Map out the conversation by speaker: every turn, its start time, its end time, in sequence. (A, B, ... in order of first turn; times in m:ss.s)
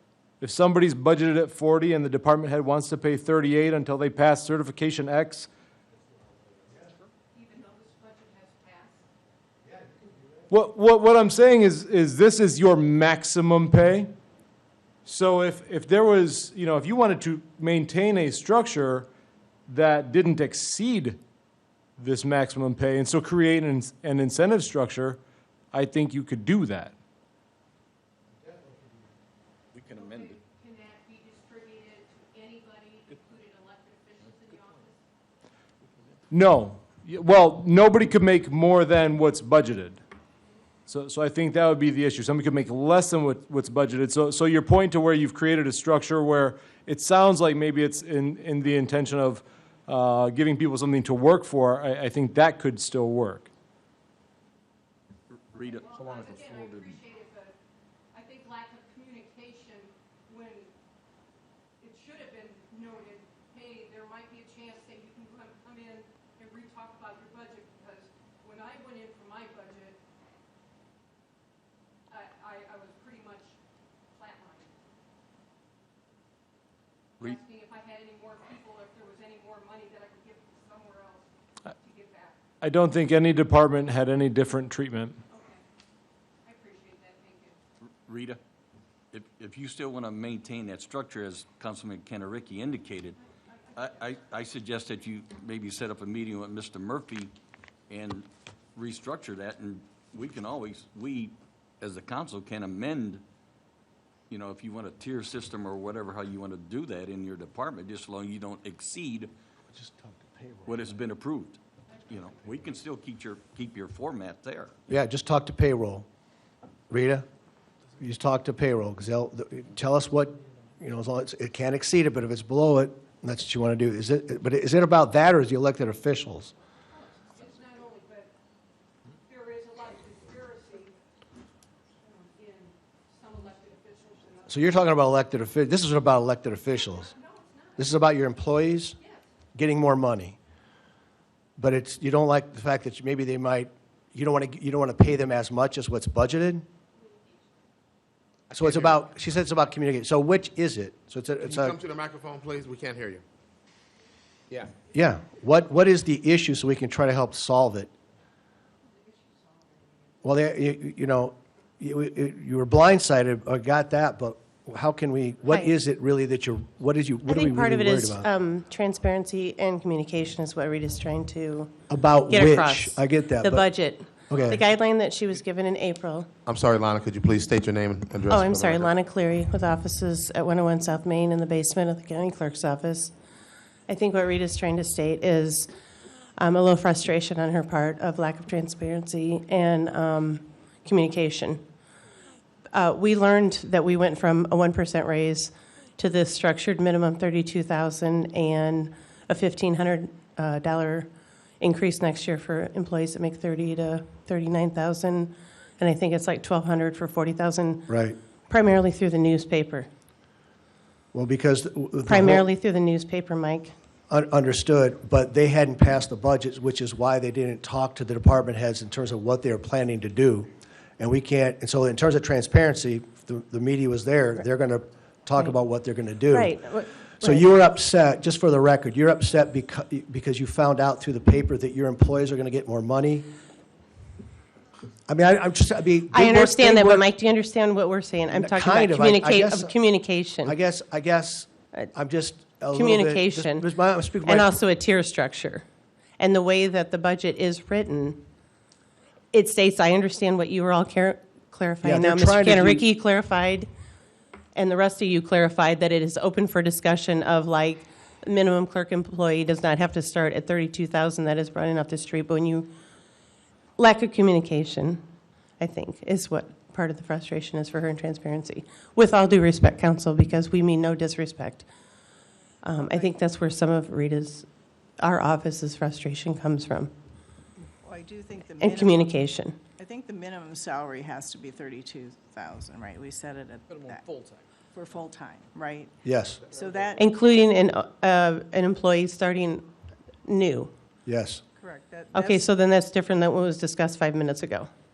0:00.4-0:05.5 A
0:07.3-0:09.0 B
0:10.5-0:14.1 A
0:15.0-0:19.1 A
0:19.7-0:21.2 A
0:22.0-0:25.2 A
0:25.7-0:26.9 A
0:29.7-0:30.4 C
0:29.8-0:35.0 B
0:36.3-0:40.0 A
0:40.9-0:53.5 A
0:55.4-0:57.0 C
0:55.6-0:57.5 B
0:58.1-1:00.7 B
1:01.8-1:10.0 B
1:12.1-1:13.6 B
1:14.1-1:14.8 B
1:17.2-1:22.4 B
1:22.6-1:25.2 A
1:25.3-1:25.6 B
1:26.4-1:27.6 B
1:27.8-1:28.4 C
1:29.1-1:33.2 C
1:33.4-1:34.2 B
1:33.7-1:37.3 C
1:37.9-1:43.2 C
1:44.3-1:49.3 C
1:49.7-1:50.7 D
1:50.6-1:54.7 C
1:52.1-1:52.6 B
1:54.9-1:56.0 D
1:56.9-1:57.2 D
1:58.0-2:06.5 D
2:06.9-2:08.3 B
2:09.2-2:11.0 B
2:12.0-2:14.8 B
2:14.5-2:17.1 D
2:16.6-2:18.0 B
2:17.8-2:19.0 D
2:19.0-2:19.3 B
2:19.5-2:20.4 D
2:21.6-2:26.6 D
2:26.9-2:27.6 B
2:28.5-2:31.8 D
2:28.6-2:29.0 E
2:31.4-2:33.2 E
2:34.9-2:37.9 D
2:38.9-2:40.2 B
2:40.2-2:48.3 D
2:47.2-2:56.3 F
2:51.9-2:53.6 D
2:54.3-2:54.6 D
2:56.4-2:58.9 E
2:58.3-3:03.1 F
3:03.9-3:05.7 F
3:06.4-3:11.6 F
3:12.7-3:21.1 F
3:21.6-3:27.9 F
3:27.9-3:28.2 D
3:28.5-3:29.9 F
3:31.1-3:32.5 D
3:32.1-3:33.7 F
3:34.1-3:46.5 D
3:46.3-3:47.5 F
3:47.2-3:53.3 D
3:55.1-3:57.0 D
3:56.1-4:00.6 F
3:58.3-3:59.8 D
4:00.4-4:04.5 D
4:02.7-4:03.7 F
4:04.2-4:05.6 F
4:06.2-4:08.2 F
4:09.3-4:13.7 F
4:11.8-4:12.8 D
4:14.5-4:22.7 F
4:23.8-4:25.0 F
4:25.6-4:31.7 F
4:32.6-4:34.5 F
4:32.8-4:33.1 G
4:35.0-4:36.9 F
4:37.6-4:44.2 G
4:38.6-4:39.6 F
4:44.7-4:45.9 G
4:46.0-4:46.5 D
4:46.4-4:47.0 G
4:47.0-4:49.6 F
4:50.2-4:50.7 F
4:51.0-4:51.4 D
4:51.6-4:52.5 G
4:52.1-4:54.7 F